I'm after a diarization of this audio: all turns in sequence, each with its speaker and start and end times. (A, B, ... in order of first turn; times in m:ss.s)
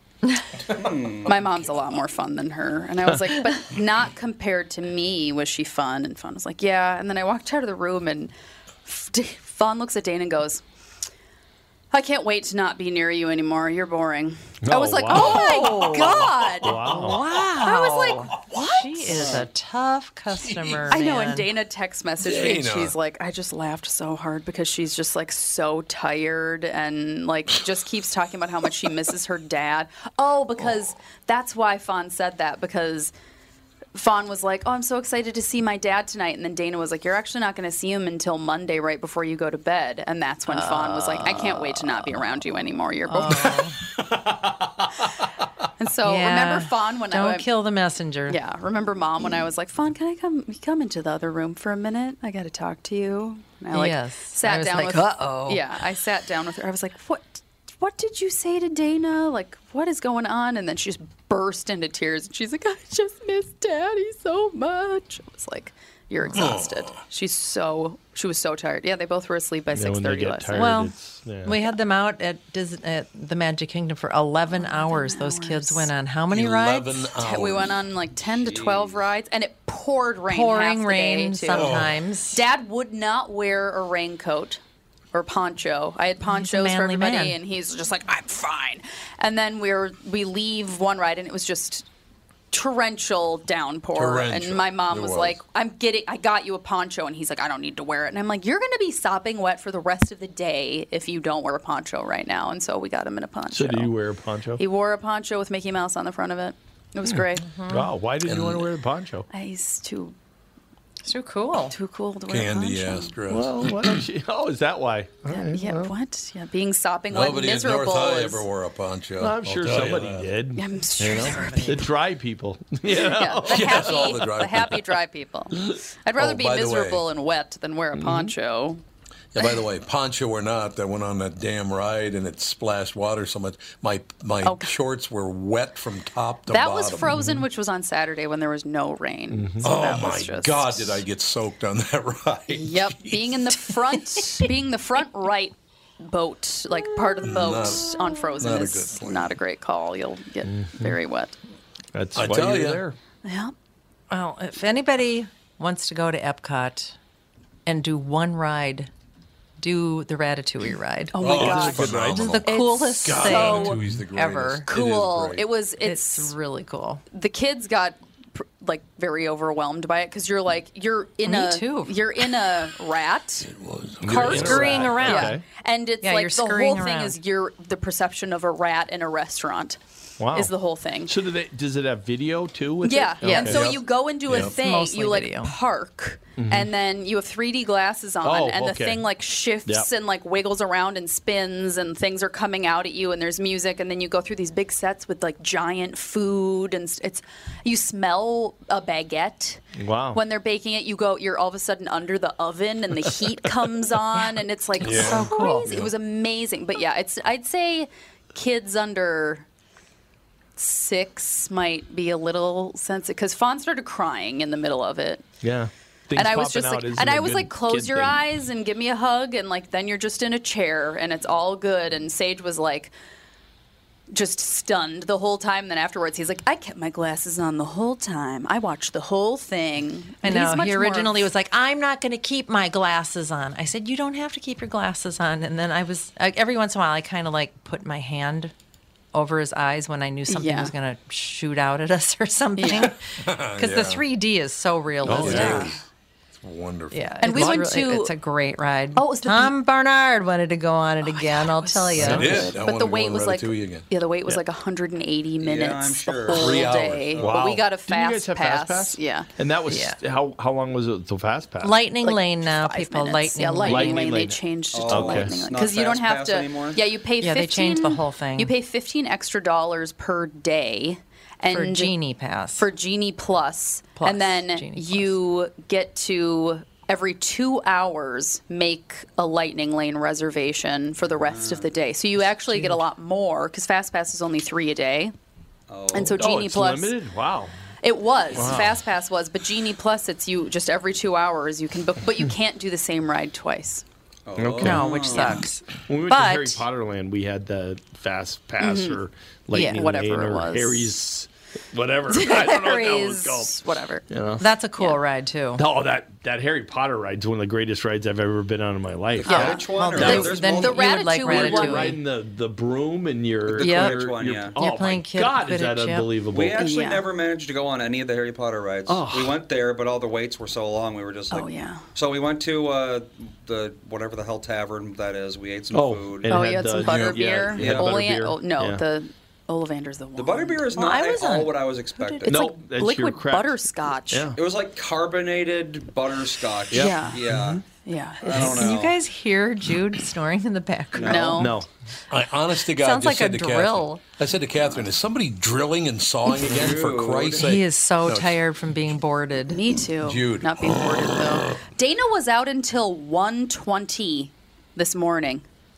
0:00.7-0:01.4 A
0:01.2-0:08.3 B
0:08.8-0:10.6 B
0:11.9-0:19.4 B
0:14.6-0:16.0 C
0:15.2-0:16.3 D
0:16.6-0:17.2 C
0:16.9-0:21.5 D
0:18.5-0:19.4 E
0:20.3-0:20.9 E
0:20.9-0:33.1 B
0:22.2-0:23.0 E
0:34.0-0:43.7 B
0:40.5-0:42.2 D
0:43.1-0:43.8 D
0:45.8-0:47.5 B
0:46.0-0:48.4 D
0:48.3-1:10.7 B
0:53.7-0:55.7 D
1:06.3-1:07.0 E
1:09.7-1:11.6 C
1:10.5-1:10.9 D
1:11.4-1:17.1 D
1:14.5-1:15.9 B
1:16.3-1:17.8 E
1:17.2-1:21.8 B
1:18.2-1:19.1 A
1:20.3-1:22.4 D
1:21.5-1:22.0 E
1:22.3-1:24.6 B
1:25.1-1:31.9 B
1:26.2-1:27.4 D
1:32.5-1:44.0 B
1:33.9-1:35.4 E
1:43.5-1:44.6 C
1:44.6-1:47.5 B
1:47.1-1:49.3 C
1:47.5-1:47.9 D
1:48.2-1:48.7 E
1:49.3-1:50.2 B
1:51.0-1:51.7 D
1:51.7-1:53.2 B
1:52.3-1:53.8 E
1:53.3-1:55.9 C
1:55.3-1:58.4 B
1:57.1-2:00.3 E
1:59.2-2:03.9 C
2:00.6-2:01.8 B
2:01.1-2:01.8 D
2:02.9-2:08.8 B
2:03.5-2:04.8 E
2:06.2-2:07.1 E
2:07.9-2:08.3 C
2:09.3-2:17.1 E
2:14.4-2:14.7 B
2:16.5-2:21.0 B
2:17.1-2:17.4 C
2:19.3-2:19.6 C
2:19.6-2:23.4 E
2:22.5-2:31.4 B
2:27.2-2:27.9 E
2:28.4-2:29.3 E
2:30.5-2:31.0 C
2:32.0-2:33.0 C
2:32.2-2:32.8 E
2:33.2-2:33.5 B
2:34.1-2:37.0 D
2:37.7-2:38.9 D
2:39.6-2:44.7 D
2:41.1-2:41.9 B
2:41.2-2:45.5 E
2:41.4-2:42.2 C
2:42.4-2:43.8 B
2:44.7-2:46.4 B
2:45.8-2:47.0 D
2:47.1-2:53.5 B
2:51.3-2:52.0 D
2:53.5-2:55.0 E
2:54.0-2:55.4 C
2:54.0-2:59.8 B
2:54.4-2:55.4 D
2:56.0-2:57.2 D
3:00.2-3:00.5 C
3:00.3-3:01.1 B
3:01.1-3:03.8 C
3:02.8-3:29.4 B
3:03.2-3:03.7 D
3:04.3-3:04.5 E
3:04.3-3:05.5 D
3:06.4-3:06.7 C
3:08.2-3:09.1 C
3:19.8-3:20.2 C
3:24.8-3:25.9 E
3:24.8-3:25.7 D
3:30.6-3:35.2 B
3:35.4-3:38.2 C
3:36.2-3:42.9 B
3:44.1-3:51.3 B
3:50.2-3:58.5 D
3:59.1-4:05.7 D
4:00.3-4:00.7 B
4:02.6-4:02.9 B
4:02.9-4:04.0 E
4:05.0-4:05.7 C
4:05.1-4:05.8 E
4:05.3-4:05.6 B
4:06.3-4:07.6 E
4:06.9-4:12.4 D
4:07.2-4:08.1 B
4:09.0-4:09.6 B
4:11.1-4:19.3 B
4:12.0-4:13.9 E
4:12.0-4:12.5 C
4:15.4-4:17.5 A
4:16.3-4:17.2 E
4:17.2-4:21.7 C
4:19.7-4:20.0 D
4:21.6-4:24.0 D
4:22.0-4:31.9 B
4:23.6-4:25.4 C
4:24.7-4:26.8 A
4:27.2-4:28.5 D
4:31.5-4:32.7 D
4:32.6-4:45.1 B
4:34.0-4:35.2 D
4:41.2-4:41.7 A
4:42.5-4:42.8 D
4:45.7-4:46.2 A
4:45.9-4:47.0 B
4:46.0-4:47.5 C
4:47.8-4:53.8 B
4:48.3-4:48.8 C
4:54.3-4:55.5 A
4:54.4-4:55.1 C
4:54.6-4:56.6 D
4:55.1-4:55.5 B
4:55.9-5:04.5 C
4:58.6-4:59.0 B
4:59.5-5:01.0 B
4:59.5-4:59.9 D
5:02.1-5:04.0 B
5:04.4-5:05.6 D
5:05.6-5:16.9 C
5:09.1-5:10.9 A
5:09.3-5:12.0 B
5:09.9-5:12.0 D
5:13.5-5:14.6 A
5:13.6-5:14.0 D
5:14.6-5:16.2 D
5:16.3-5:26.3 A
5:16.6-5:17.0 B
5:18.9-5:19.4 C
5:21.3-5:21.8 B
5:25.7-5:28.8 C
5:26.3-5:30.7 B
5:26.8-5:27.4 E
5:27.6-5:28.0 A
5:30.2-5:32.5 A
5:30.8-5:32.3 D
5:32.3-5:34.3 B
5:32.3-5:34.4 C
5:34.4-5:37.6 A
5:36.7-5:37.6 C
5:36.8-5:38.6 B
5:38.2-5:39.0 A
5:38.4-5:41.4 D
5:40.9-5:41.4 A
5:41.0-5:41.6 B
5:41.2-5:41.7 C
5:42.1-5:48.4 E
5:42.8-5:44.0 D
5:46.4-5:47.5 A
5:47.4-5:49.6 D
5:49.5-5:55.4 B
5:50.0-5:51.4 E